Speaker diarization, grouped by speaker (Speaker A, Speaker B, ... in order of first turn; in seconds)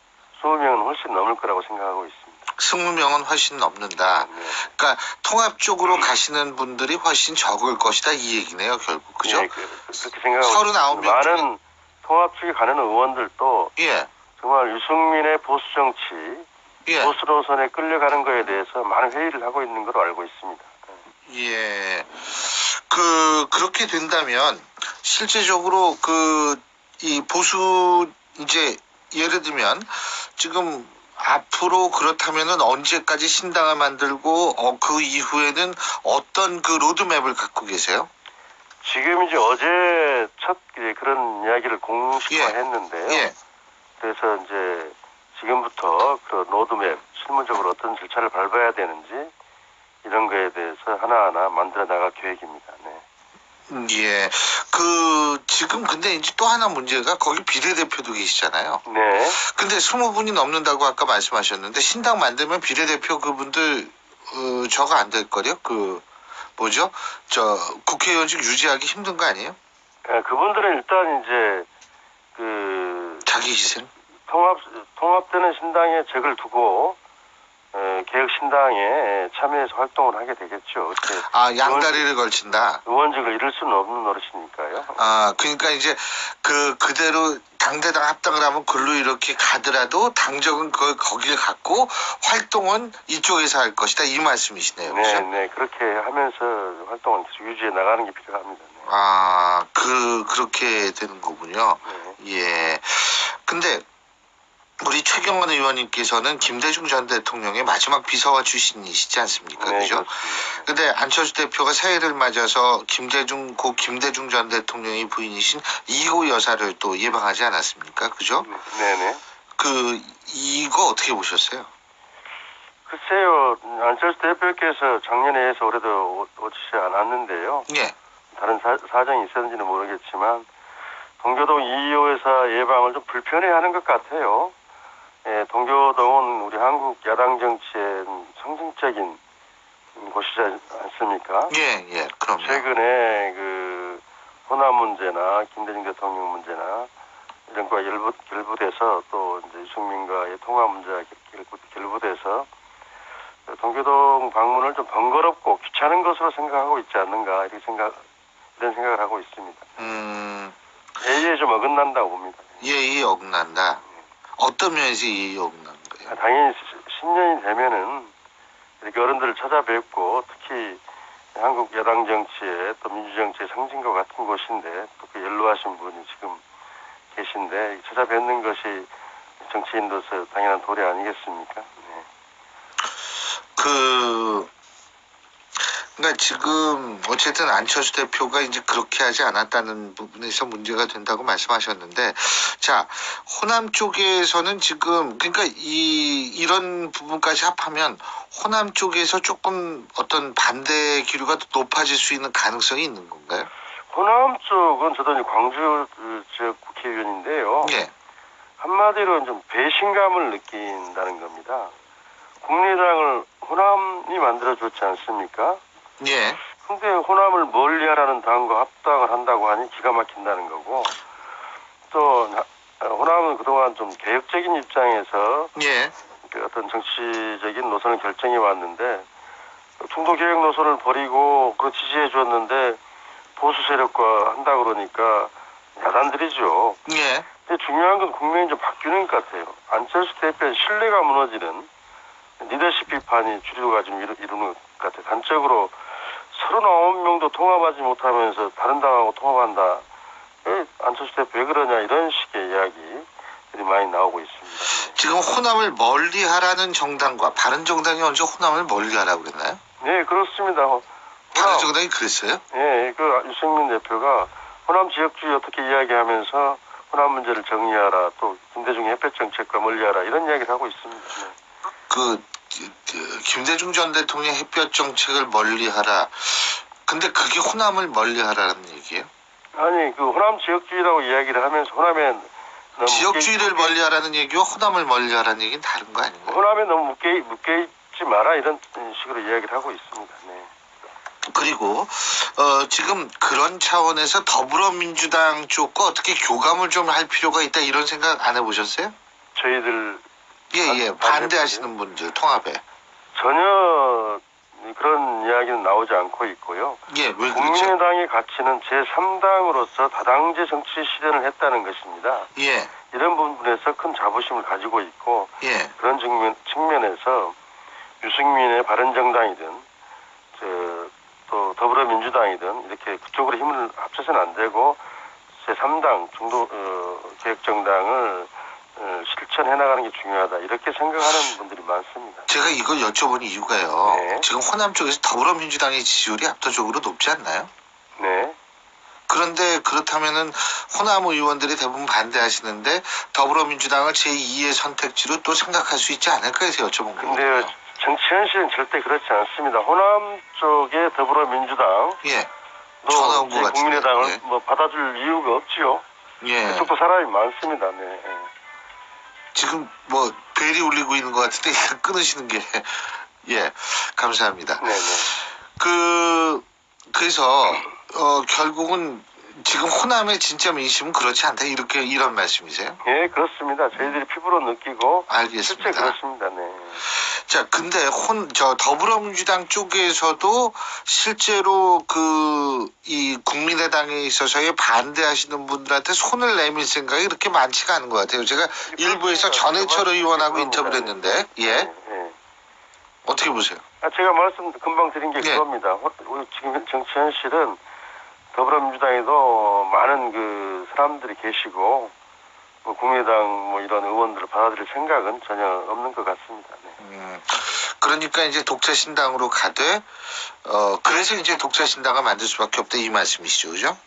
Speaker A: 0.4-2.4, 4.0-4.6, 9.2-13.7, 14.4-16.5, 17.0-20.9, 38.8-43.3, 44.0-49.3, 50.0-53.0, 58.9-59.4, 70.1-71.7, 72.4-73.3, 74.3-77.0, 77.7-82.1, 82.8-85.1, 94.8-98.9, 101.8-102.2, 109.6-110.7, 118.4-119.2, 122.9-127.7, 128.3-130.5, 131.2-134.5, 135.2-139.2, 140.0-141.6, 142.4-146.9, 147.5-152.5, 153.5-158.0, 158.6-159.8, 161.0-162.6, 166.1-168.1, 168.8-170.8, 171.3-176.4, 177.1-178.9, 179.4-182.1, 203.9-207.8, 208.6-211.7, 212.4-215.6, 216.6-221.0, 221.9-225.5, 226.3-229.1, 229.8-232.8, 233.4-236.8, 237.5-241.7, 242.4-245.8, 246.3-249.8, 250.4-255.0, 259.8-261.7, 262.5-271.3, 279.6-283.8, 286.3-290.5, 299.4-300.1, 300.6-301.7, 303.1-312.3, 312.9-317.4, 318.0-319.6, 320.4-324.8, 325.4-332.3, 333.8-334.3, 338.0-338.4, 347.0-352.0, 352.8-355.8, 356.4-358.3, 364.6-365.1, 372.8-376.8, 388.6-392.1, 393.8-397.6, 398.3-401.9, 402.6-406.8
Speaker B: 2.5-9.5, 10.4-11.5, 13.8-14.1, 16.9-17.1, 21.3-38.1, 42.3-42.5, 43.1-43.4, 53.7-66.0, 66.6-69.6, 73.3-73.9, 81.2-82.8, 85.0-95.3, 98.9-103.8, 104.8-118.5, 119.6-121.7, 127.7-128.0, 141.5-142.7, 159.8-160.6, 162.6-163.8, 164.4-166.1, 183.6-184.5, 185.6-203.5, 207.6-207.9, 216.0-216.4, 225.6-225.9, 236.9-237.3, 254.8-259.6, 261.4-262.4, 271.9-279.1, 282.9-286.4, 291.3-298.9, 300.5-302.6, 306.9-307.8, 312.4-312.7, 315.4-315.7, 332.3-337.5, 339.1-347.6, 352.0-352.3, 352.9-354.2, 356.2-356.7, 359.4-372.8, 375.1-376.0, 376.8-391.7, 393.1-393.6, 395.2-395.4, 406.8-413.8